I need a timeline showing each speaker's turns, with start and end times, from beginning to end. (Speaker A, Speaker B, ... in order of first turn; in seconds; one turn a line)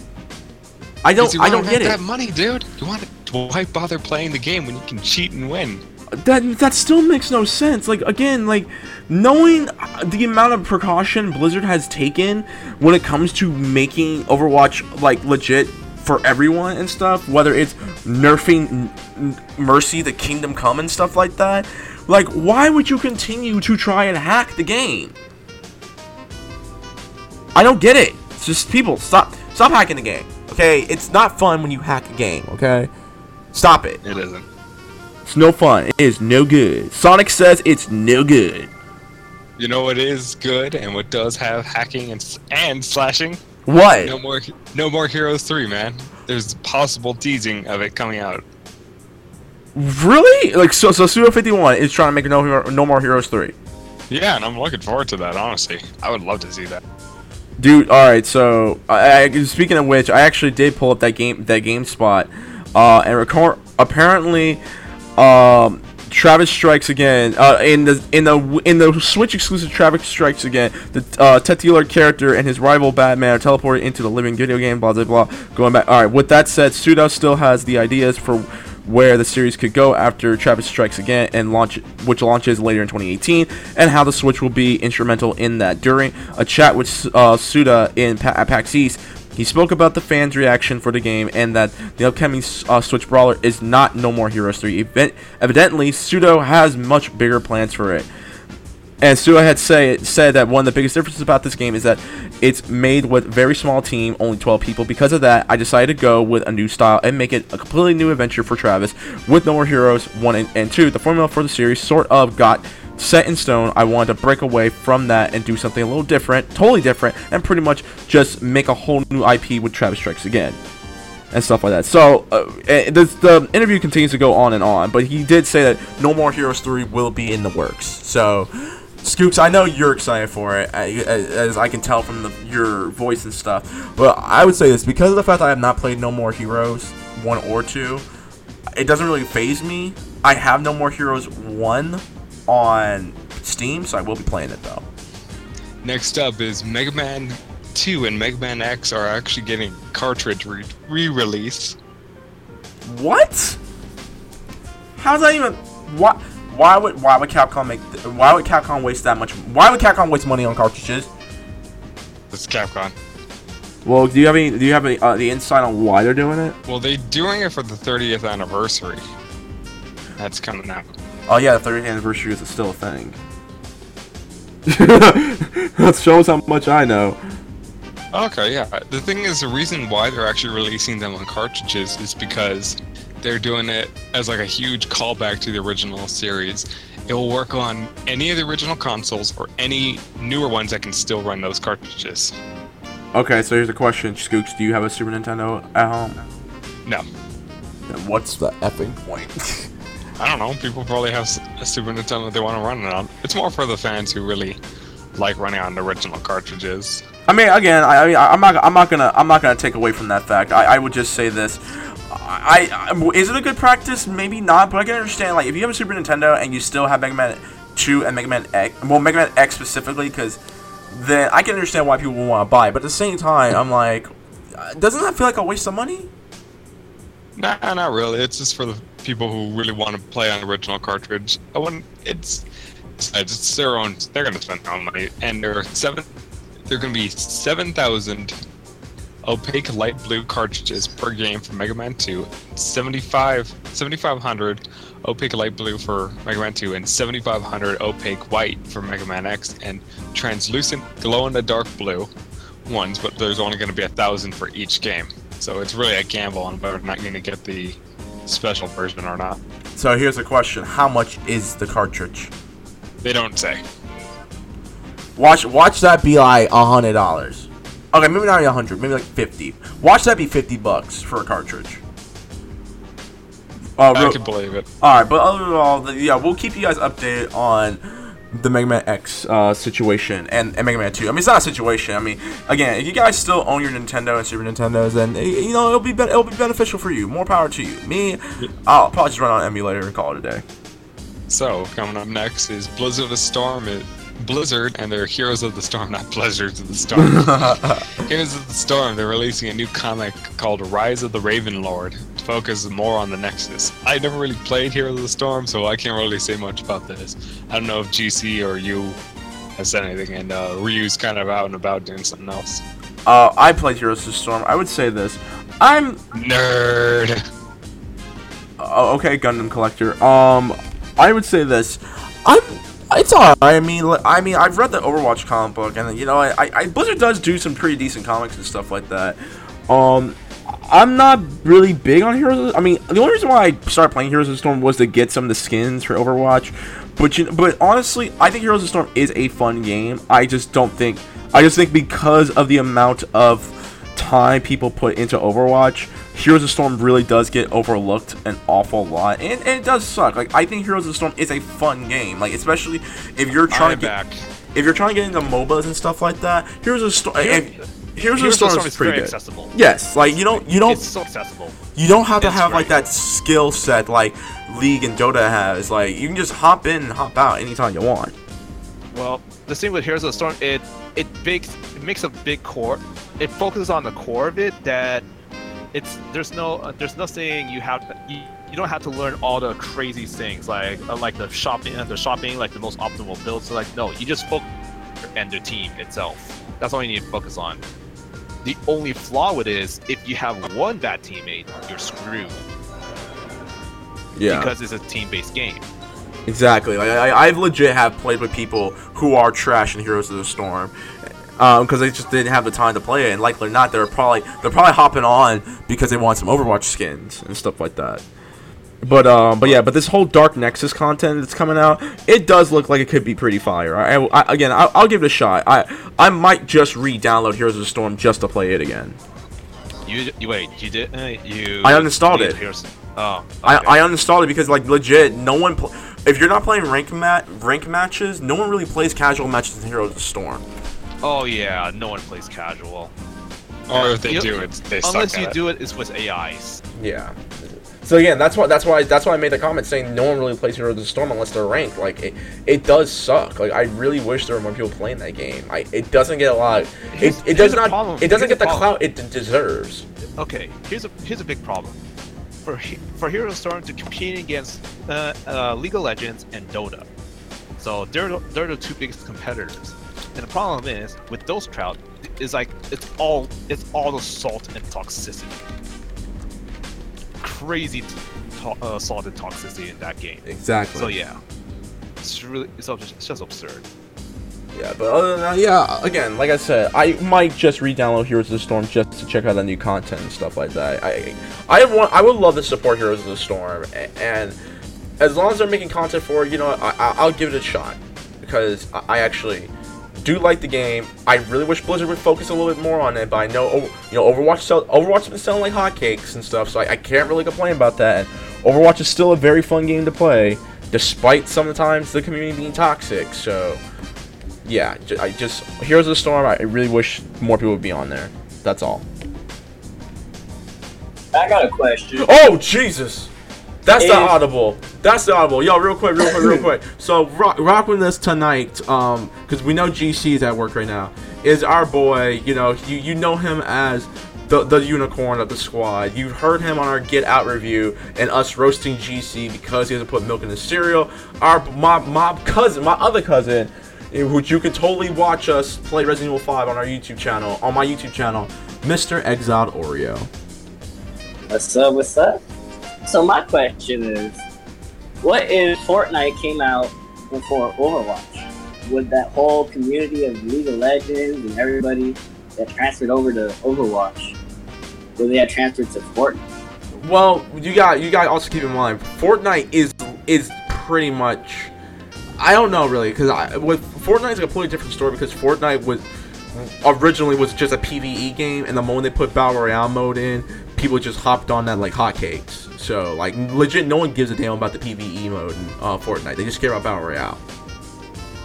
Speaker A: 1.0-2.0
Speaker B: 1.2-5.8
Speaker A: 6.2-25.1
Speaker A: 27.5-32.9
Speaker A: 33.5-34.0
Speaker B: 34.0-34.5
Speaker A: 35.2-38.7
Speaker B: 39.6-43.4
Speaker A: 43.6-44.1
Speaker B: 44.0-48.4
Speaker A: 49.7-53.5
Speaker B: 54.1-56.8
Speaker A: 57.6-64.6
Speaker A: 65.2-98.1
Speaker A: 99.0-120.6
Speaker A: 121.3-138.0
Speaker A: 138.7-144.8
Speaker B: 145.8-151.8
Speaker A: 152.8-153.6
Speaker A: 154.9-161.1
Speaker B: 162.3-162.9
Speaker A: 163.8-166.6
Speaker B: 166.7-169.0
Speaker B: 170.2-170.9
Speaker A: 171.3-173.2
Speaker A: 174.7-177.2
Speaker B: 178.1-192.3
Speaker A: 193.1-196.2
Speaker A: 197.9-199.7
Speaker B: 200.2-204.6
Speaker B: 205.2-207.0
Speaker A: 207.3-226.1
Speaker B: 227.3-232.4
Speaker B: 233.0-236.1
Speaker B: 236.7-238.3
Speaker B: 239.2-252.1
Speaker B: 252.7-259.4
Speaker A: 259.8-262.3
Speaker B: 263.0-263.6
Speaker A: 265.1-271.8
Speaker A: 273.8-274.2
Speaker B: 273.9-274.7
Speaker A: 274.8-290.4
Speaker B: 291.3-309.0
Speaker A: 297.0-297.8
Speaker B: 309.6-312.6
Speaker A: 313.0-316.0
Speaker B: 316.1-317.2
Speaker A: 318.6-353.9
Speaker C: 353.5-354.2
Speaker A: 354.5-360.8
Speaker C: 357.2-361.6
Speaker A: 361.8-368.1
Speaker C: 362.2-362.8
Speaker C: 368.9-375.0
Speaker C: 375.7-384.5
Speaker C: 385.1-387.6
Speaker C: 388.4-392.4
Speaker A: 394.1-394.5
Speaker C: 394.3-395.6
Speaker A: 396.2-400.7
Speaker A: 401.4-408.0
Speaker A: 408.8-419.0
Speaker C: 419.9-423.8
Speaker A: 421.6-422.4
Speaker A: 423.4-430.4
Speaker C: 431.0-432.9
Speaker B: 433.7-435.3
Speaker C: 433.7-436.6
Speaker A: 436.8-449.9
Speaker C: 446.9-448.7
Speaker C: 450.2-451.8
Speaker C: 452.4-456.9
Speaker C: 457.6-465.4
Speaker C: 467.2-471.2
Speaker A: 470.3-470.9
Speaker C: 472.0-473.6
Speaker A: 474.5-484.4
Speaker A: 485.0-503.6
Speaker A: 504.4-508.8
Speaker D: 511.1-512.1
Speaker A: 511.9-513.1
Speaker A: 513.6-540.1
Speaker D: 513.8-514.1
Speaker D: 541.3-542.2
Speaker D: 542.8-544.2
Speaker D: 545.0-554.1
Speaker D: 555.0-556.2
Speaker A: 556.8-561.5
Speaker A: 562.2-577.2